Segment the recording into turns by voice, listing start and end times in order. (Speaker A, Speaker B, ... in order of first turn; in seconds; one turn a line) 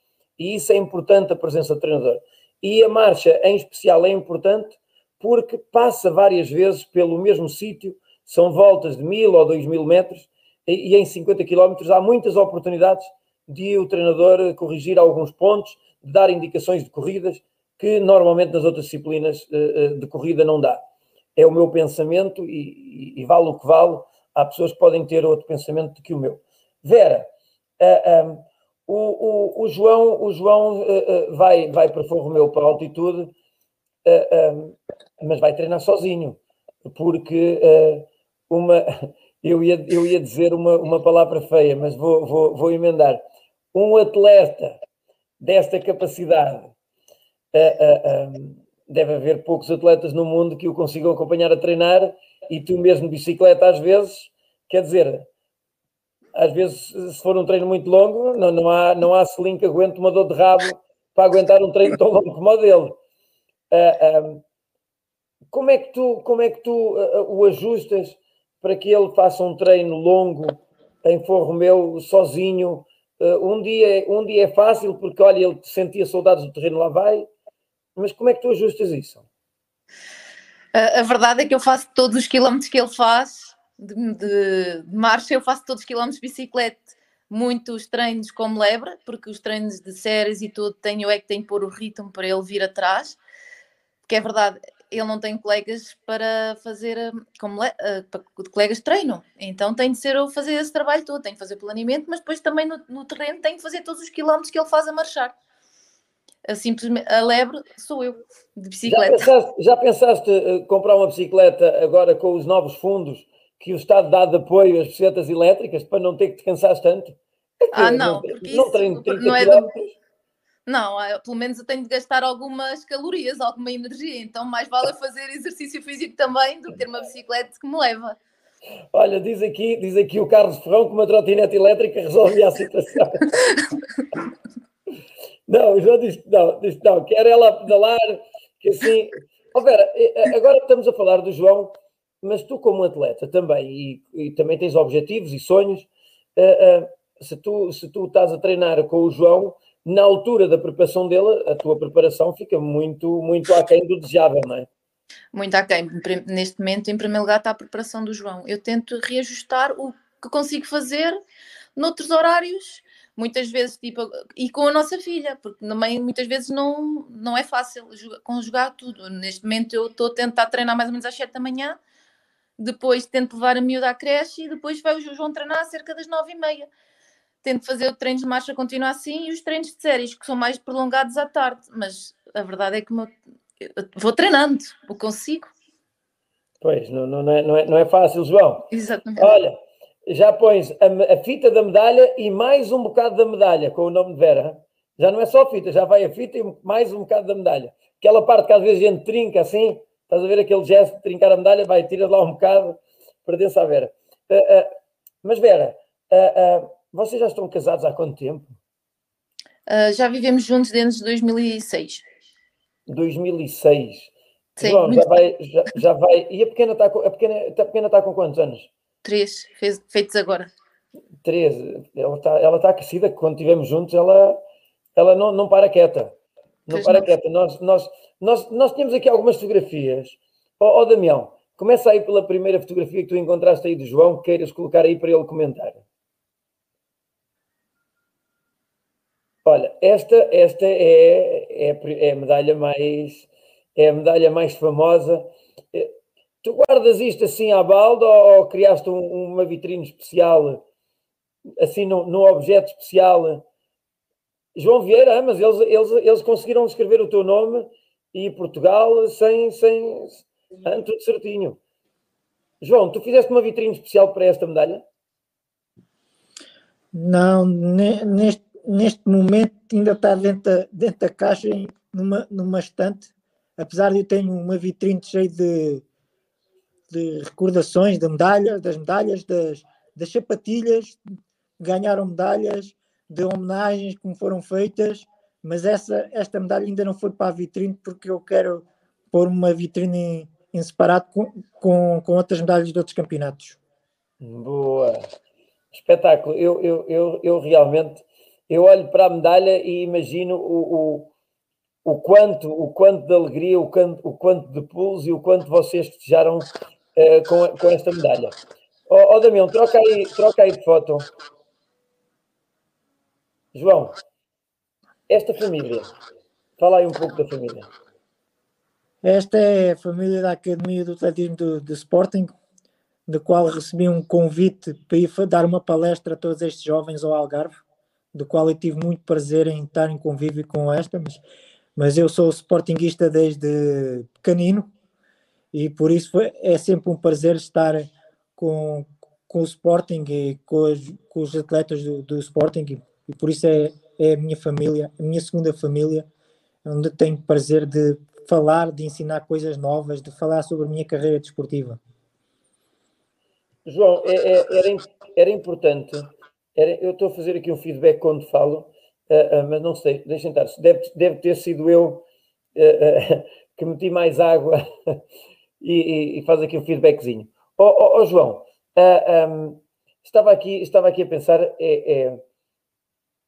Speaker A: 0.4-20.8
Speaker A: 21.4-33.3
Speaker A: 34.0-44.8
Speaker A: 45.4-46.7
Speaker A: 47.5-55.3
Speaker A: 56.3-63.0
Speaker A: 63.7-64.4
Speaker A: 65.5-77.3
Speaker A: 78.0-79.2
Speaker B: 80.7-93.2
Speaker B: 94.1-105.3
Speaker B: 106.5-109.3
Speaker A: 108.8-120.0
Speaker B: 117.7-119.7
Speaker B: 120.7-128.2
Speaker A: 128.9-133.2
Speaker A: 135.5-154.7
Speaker B: 155.3-161.2
Speaker B: 161.8-171.8
Speaker B: 172.6-176.7
Speaker B: 177.4-185.5
Speaker A: 186.6-208.6
Speaker B: 188.7-189.3
Speaker B: 209.7-212.0
Speaker A: 212.9-218.7
Speaker B: 214.6-215.1
Speaker B: 219.0-220.5
Speaker A: 221.2-224.4
Speaker A: 224.9-226.1
Speaker A: 226.7-235.8
Speaker B: 226.7-227.1
Speaker A: 239.4-250.6
Speaker A: 251.6-253.4
Speaker A: 254.5-261.6
Speaker A: 262.6-264.8
Speaker C: 266.9-275.8
Speaker C: 276.9-281.0
Speaker C: 281.6-293.6
Speaker A: 294.2-295.1
Speaker A: 295.7-301.1
Speaker A: 301.8-308.3
Speaker A: 308.9-311.1
Speaker A: 313.5-313.9
Speaker A: 315.1-315.9
Speaker A: 316.6-317.7
Speaker C: 319.0-322.3
Speaker C: 323.1-327.6
Speaker C: 328.1-331.2
Speaker C: 331.8-334.7
Speaker C: 335.5-346.1
Speaker C: 346.6-351.8
Speaker A: 353.6-362.0
Speaker A: 362.6-365.0
Speaker A: 365.6-372.2